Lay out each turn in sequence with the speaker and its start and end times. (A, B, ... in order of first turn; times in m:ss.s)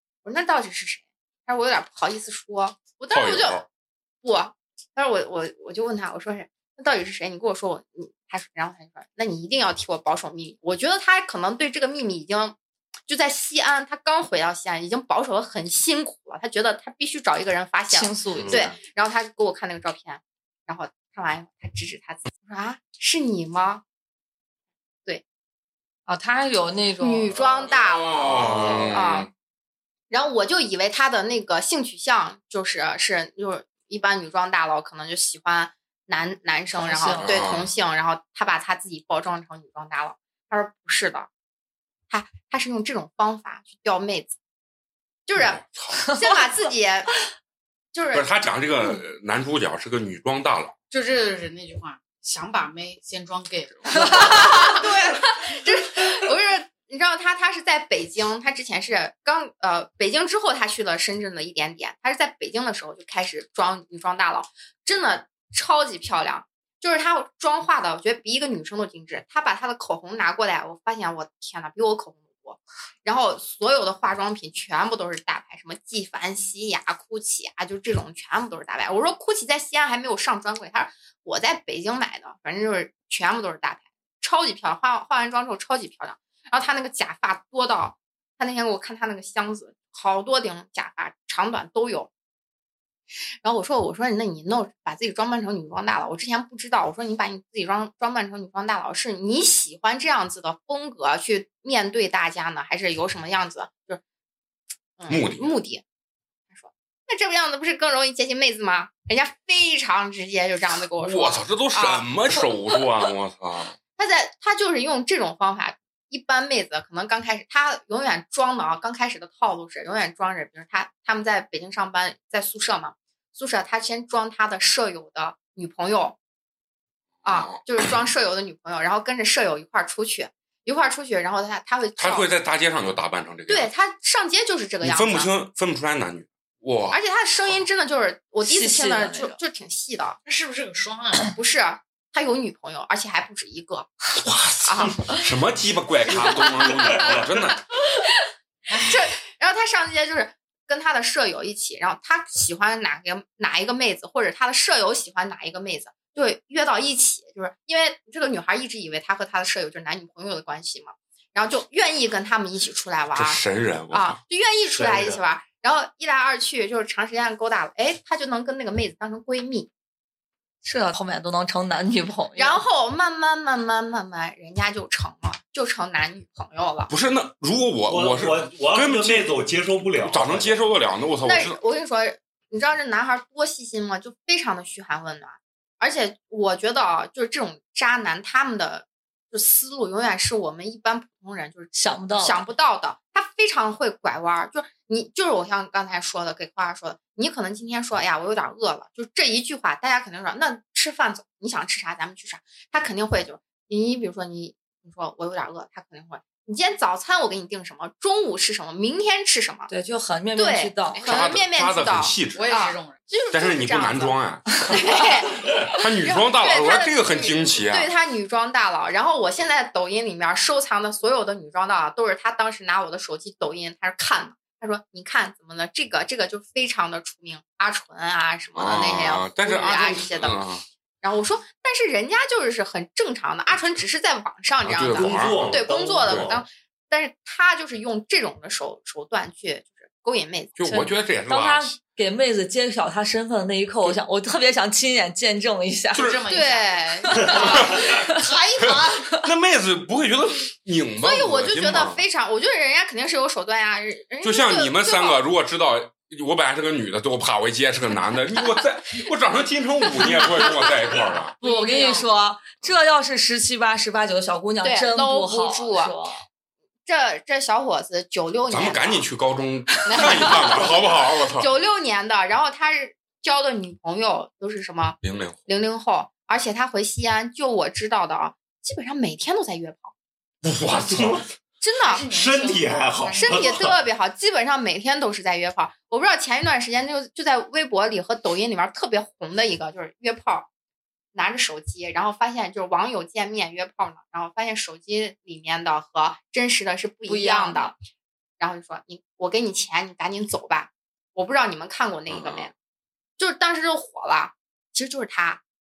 0:00.2-0:03.7 A
0:03.1-0:03.6 B
0:04.2-0:23.8 A
0:17.9-0:18.7 C
0:18.4-0:18.8 D
0:26.1-0:27.3 C
0:27.0-0:28.3 A
0:27.9-0:29.3 B
0:28.2-0:29.0 D
0:28.9-0:29.3 A
0:30.1-0:41.3 A
0:36.8-0:37.4 C
0:37.2-0:37.7 B
0:42.1-0:44.3 A
0:45.3-0:47.2 A
0:45.4-0:46.0 B
0:47.9-0:48.3 A
0:48.1-0:50.7 B
0:50.9-0:54.5 E
0:54.1-0:54.7 C
0:54.3-1:32.1 A
1:33.4-1:44.0 A
1:45.0-1:45.8 A
1:45.1-1:45.5 B
1:46.5-1:52.1 A
1:51.0-1:53.8 B
1:54.0-2:06.2 A
2:07.2-2:07.6 B
2:07.2-2:12.3 A
2:12.0-2:13.7 B
2:13.5-2:15.3 A
2:14.8-2:17.0 B
2:16.9-2:20.2 A
2:18.4-2:19.4 C
2:20.2-2:21.3 E
2:21.3-2:23.9 A
2:24.2-2:27.6 B
2:24.6-2:25.2 A
2:26.2-2:27.2 A
2:28.7-2:49.7 A
2:43.2-2:44.2 B
2:44.7-2:45.2 D
2:50.6-2:52.6 C
2:52.4-2:56.9 A
2:56.9-2:59.3 B
2:57.9-3:00.7 D
3:00.0-3:01.6 B
3:01.2-3:29.7 A
3:11.7-3:12.4 C
3:29.7-3:31.2 C
3:30.4-3:50.4 A
3:31.0-3:32.5 B
3:32.3-3:33.0 E
3:33.3-3:34.8 B
3:35.6-3:37.9 B
3:48.5-3:50.6 B
3:51.0-4:00.6 A
3:54.6-3:56.3 B
3:54.9-3:56.4 D
4:00.6-4:01.7 B
4:00.6-4:06.0 C
4:05.9-4:06.2 B
4:06.0-4:09.0 E
4:06.3-4:07.8 A
4:07.7-4:08.0 B
4:07.9-4:08.2 C
4:08.6-4:12.0 B
4:11.0-4:15.2 A
4:14.2-4:21.3 B
4:21.4-4:22.0 E
4:21.4-4:26.2 C
4:24.6-4:25.9 A
4:26.9-4:29.0 A
4:28.5-4:31.5 B
4:29.8-4:39.9 A
4:35.0-4:35.4 B
4:40.4-4:41.3 D
4:40.7-4:41.2 B
4:41.6-4:42.1 A
4:41.8-4:43.7 E
4:42.1-4:43.8 D
4:43.1-4:50.5 A
4:51.1-4:57.8 A
4:57.1-4:57.7 C
4:58.4-5:02.5 A
5:02.1-5:02.5 B
5:03.2-5:05.4 A